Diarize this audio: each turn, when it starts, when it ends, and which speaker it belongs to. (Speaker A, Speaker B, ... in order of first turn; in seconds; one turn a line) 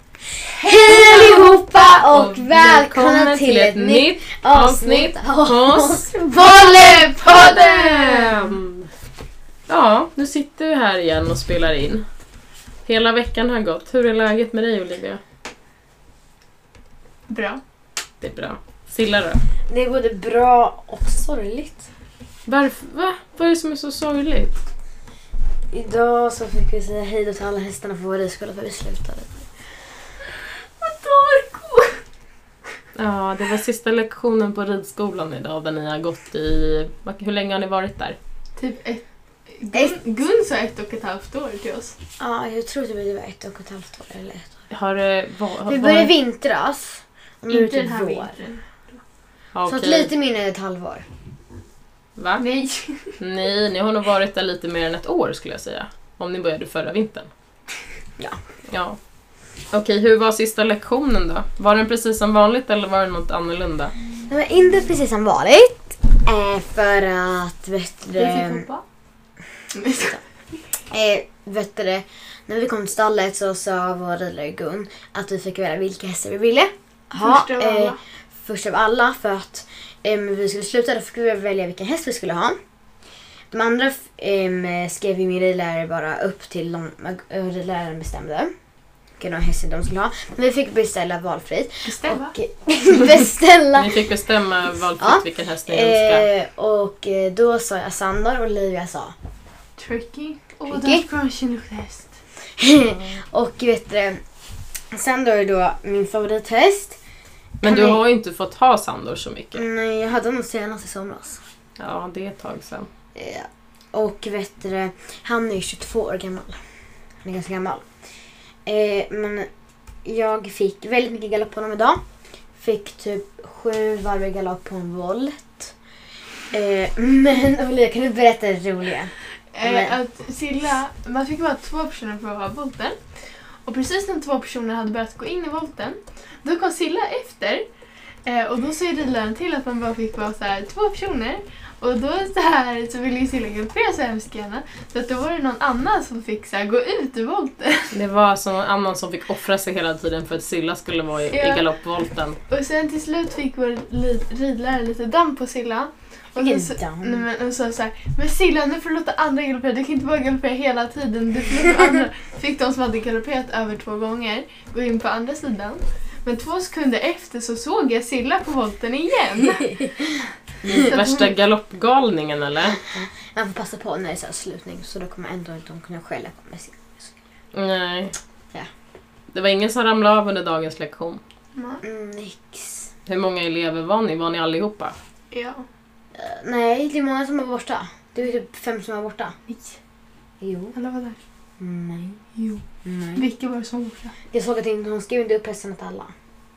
Speaker A: 0.6-8.4
Speaker B: 1.8-6.1
Speaker C: 6.8-8.1
Speaker B: 7.2-8.9
Speaker B: 9.7-12.1
Speaker B: 12.9-15.2
Speaker C: 17.3-17.6
Speaker B: 18.2-19.4
Speaker A: 19.7-21.9
Speaker B: 22.5-24.6
Speaker A: 25.7-29.4
Speaker C: 30.8-32.0
Speaker B: 33.0-38.2
Speaker C: 38.6-42.0
Speaker A: 42.2-44.6
Speaker B: 44.7-46.1
Speaker A: 45.7-48.3
Speaker C: 47.5-49.0
Speaker B: 49.5-50.1
Speaker A: 49.7-51.1
Speaker B: 52.2-52.4
Speaker C: 52.4-53.2
Speaker B: 53.2-57.3
Speaker B: 58.7-59.0
Speaker B: 59.7-63.9
Speaker A: 64.3-68.7
Speaker C: 68.2-68.8
Speaker C: 69.7-70.2
Speaker A: 70.9-82.6
Speaker C: 77.1-78.0
Speaker A: 83.5-88.5
Speaker A: 89.2-94.0
Speaker C: 91.8-92.3
Speaker B: 93.8-96.3
Speaker A: 95.0-99.1
Speaker C: 99.8-102.1
Speaker A: 100.7-101.0
Speaker A: 102.6-104.2
Speaker A: 104.9-107.0
Speaker B: 107.6-109.7
Speaker A: 107.6-108.0
Speaker A: 109.5-111.4
Speaker B: 111.8-112.9
Speaker A: 113.2-116.6
Speaker A: 117.2-117.9
Speaker A: 118.7-119.5
Speaker A: 120.0-122.0
Speaker A: 122.6-125.7
Speaker A: 126.5-130.0
Speaker C: 129.5-133.0
Speaker C: 133.7-137.7
Speaker C: 138.2-147.9
Speaker B: 147.9-152.4
Speaker C: 151.3-151.7
Speaker C: 152.5-169.9
Speaker A: 156.3-157.3
Speaker A: 169.7-170.9
Speaker C: 170.7-171.3
Speaker B: 170.7-172.8
Speaker A: 172.8-177.2
Speaker B: 177.5-178.2
Speaker B: 179.3-181.2
Speaker C: 181.6-181.8
Speaker A: 181.8-182.9
Speaker B: 183.1-184.9
Speaker C: 185.3-185.7
Speaker A: 186.1-189.4
Speaker C: 189.5-189.8
Speaker A: 190.4-190.8
Speaker C: 190.7-191.2
Speaker A: 191.6-192.2
Speaker C: 192.4-192.6
Speaker A: 192.8-193.2
Speaker C: 193.2-194.2
Speaker A: 194.3-196.1